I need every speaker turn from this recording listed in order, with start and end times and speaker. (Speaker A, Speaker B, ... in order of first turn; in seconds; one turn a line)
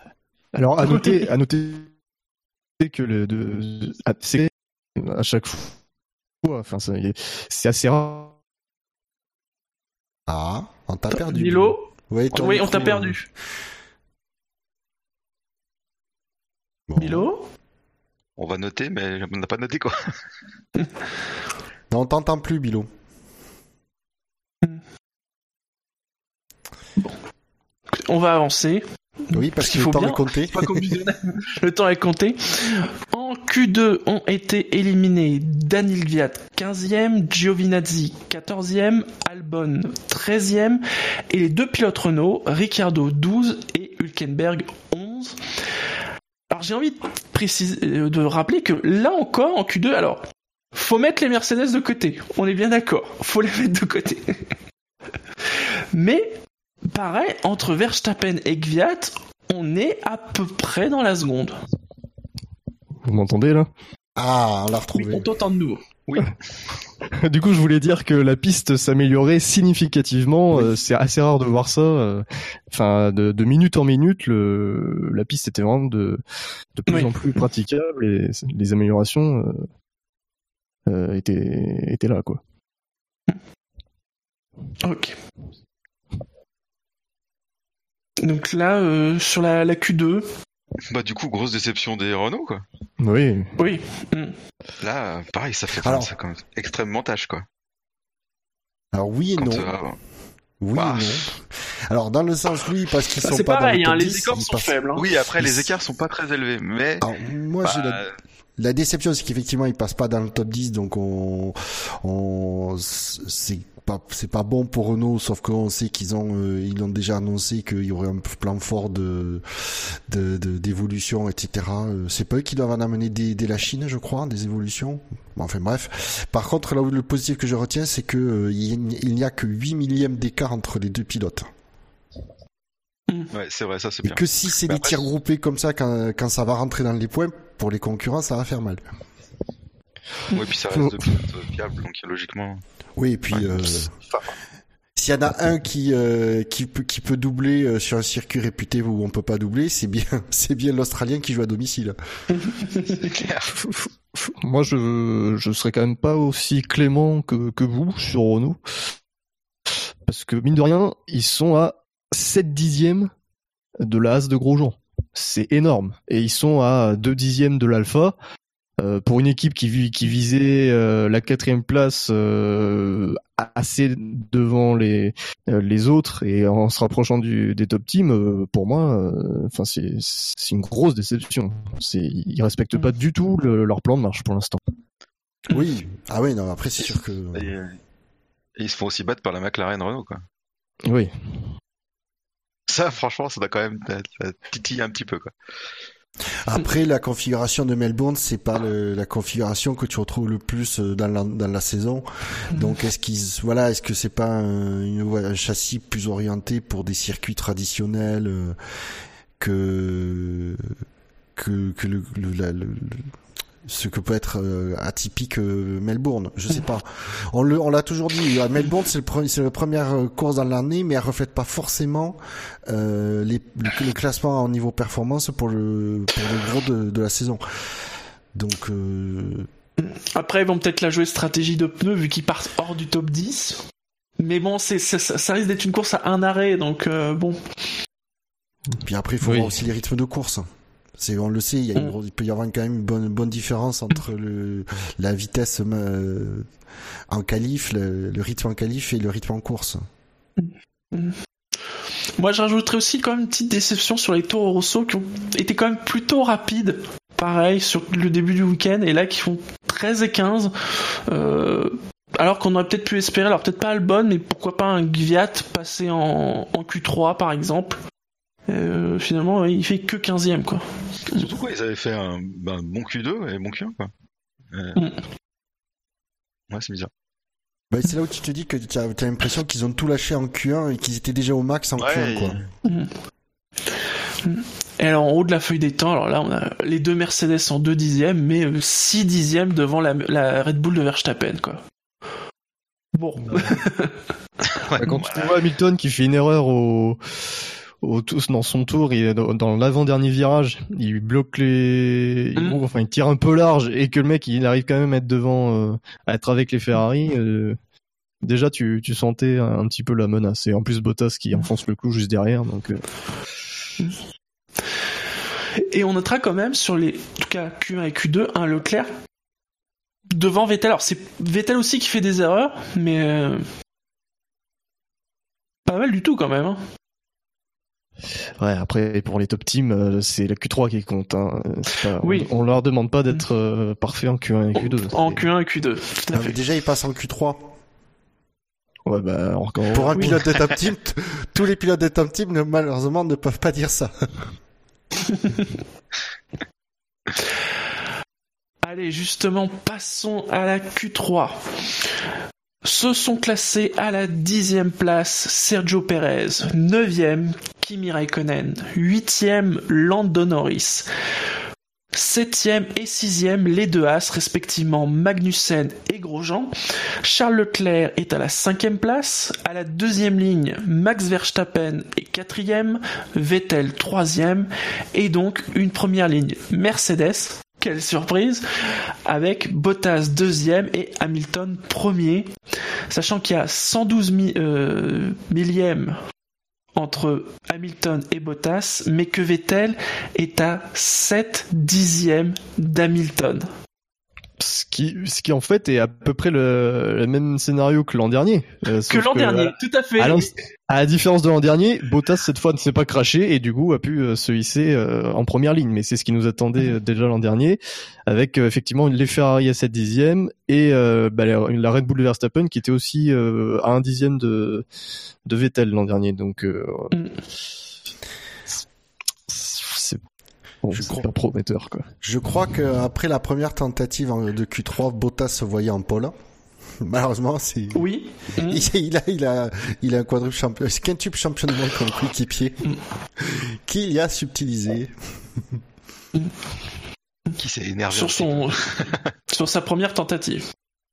Speaker A: 0.5-1.9
Speaker B: 0.9-1.2
Speaker A: 2.8-5.8
Speaker A: 6.4-8.3
Speaker C: 10.3-13.2
Speaker B: 11.2-13.3
Speaker C: 16.9-17.3
Speaker B: 17.0-17.4
Speaker D: 18.4-20.0
Speaker C: 21.9-22.9
Speaker B: 27.9-45.4
Speaker C: 29.3-30.9
Speaker B: 46.5-54.4
Speaker B: 55.9-56.4
Speaker B: 56.9-61.5
Speaker A: 63.0-63.7
Speaker C: 64.2-65.3
Speaker B: 64.9-65.8
Speaker D: 66.1-66.4
Speaker A: 67.2-76.2
Speaker C: 70.5-70.8
Speaker A: 76.8-79.7
Speaker B: 76.9-77.4
Speaker A: 80.9-82.4
Speaker B: 84.8-85.1
Speaker B: 88.2-90.3
Speaker D: 90.9-92.7
Speaker A: 93.0-93.5
Speaker B: 93.6-94.3
Speaker D: 94.8-97.5
Speaker C: 95.8-96.1
Speaker C: 98.9-99.7
Speaker D: 99.4-100.0
Speaker C: 100.6-104.7
Speaker D: 100.8-101.3
Speaker B: 103.2-105.1
Speaker D: 105.0-107.1
Speaker C: 105.3-105.7
Speaker C: 107.0-108.1
Speaker D: 107.6-108.1
Speaker C: 108.6-131.5
Speaker D: 133.3-135.1
Speaker C: 134.0-138.8
Speaker D: 140.3-142.6
Speaker A: 140.7-141.0
Speaker C: 143.0-143.9
Speaker D: 143.3-144.3
Speaker C: 145.0-152.0
Speaker B: 152.3-153.2
Speaker D: 153.0-153.5
Speaker A: 153.5-158.9
Speaker A: 160.1-163.1
Speaker A: 163.8-168.2
Speaker A: 168.8-184.6
Speaker C: 185.5-187.5
Speaker D: 187.3-187.8
Speaker D: 188.6-190.2
Speaker A: 190.8-191.1
Speaker D: 192.7-195.3
Speaker C: 196.4-208.6
Speaker B: 202.5-202.8
Speaker C: 209.4-210.7
Speaker C: 211.4-213.1
Speaker C: 213.6-227.4
Speaker C: 228.3-229.5
Speaker B: 229.8-233.7
Speaker B: 234.2-237.4
Speaker C: 238.8-240.4
Speaker A: 239.2-239.6
Speaker C: 241.0-246.5
Speaker C: 247.1-249.8
Speaker B: 250.4-251.2
Speaker B: 252.2-267.8
Speaker B: 268.5-271.3
Speaker D: 271.1-273.9
Speaker D: 274.5-274.8
Speaker D: 276.5-276.9
Speaker C: 277.7-282.4
Speaker D: 281.8-282.5
Speaker B: 282.6-282.9
Speaker B: 284.2-291.6
Speaker B: 292.9-294.0
Speaker D: 294.5-295.4
Speaker A: 294.8-297.0
Speaker A: 297.8-307.6
Speaker A: 308.2-312.8
Speaker B: 315.6-318.9
Speaker B: 320.1-323.4
Speaker B: 325.7-326.6
Speaker A: 328.4-335.3
Speaker B: 332.0-332.3
Speaker B: 334.6-336.4
Speaker C: 336.1-337.5
Speaker A: 338.9-340.2
Speaker C: 339.7-344.3
Speaker B: 339.9-340.2
Speaker B: 345.2-345.5
Speaker B: 348.6-351.4
Speaker B: 352.6-360.9
Speaker B: 361.9-378.4
Speaker B: 379.1-382.3
Speaker B: 382.9-386.0
Speaker B: 386.8-393.5
Speaker A: 394.4-414.6
Speaker B: 398.9-400.3
Speaker A: 415.2-417.0
Speaker A: 419.3-420.0
Speaker A: 420.6-421.9
Speaker C: 420.7-421.1
Speaker C: 422.0-426.1
Speaker C: 426.8-427.9
Speaker B: 427.7-428.6
Speaker C: 428.4-432.6
Speaker C: 433.2-434.9
Speaker D: 437.4-439.0
Speaker B: 437.9-438.6
Speaker B: 439.3-440.4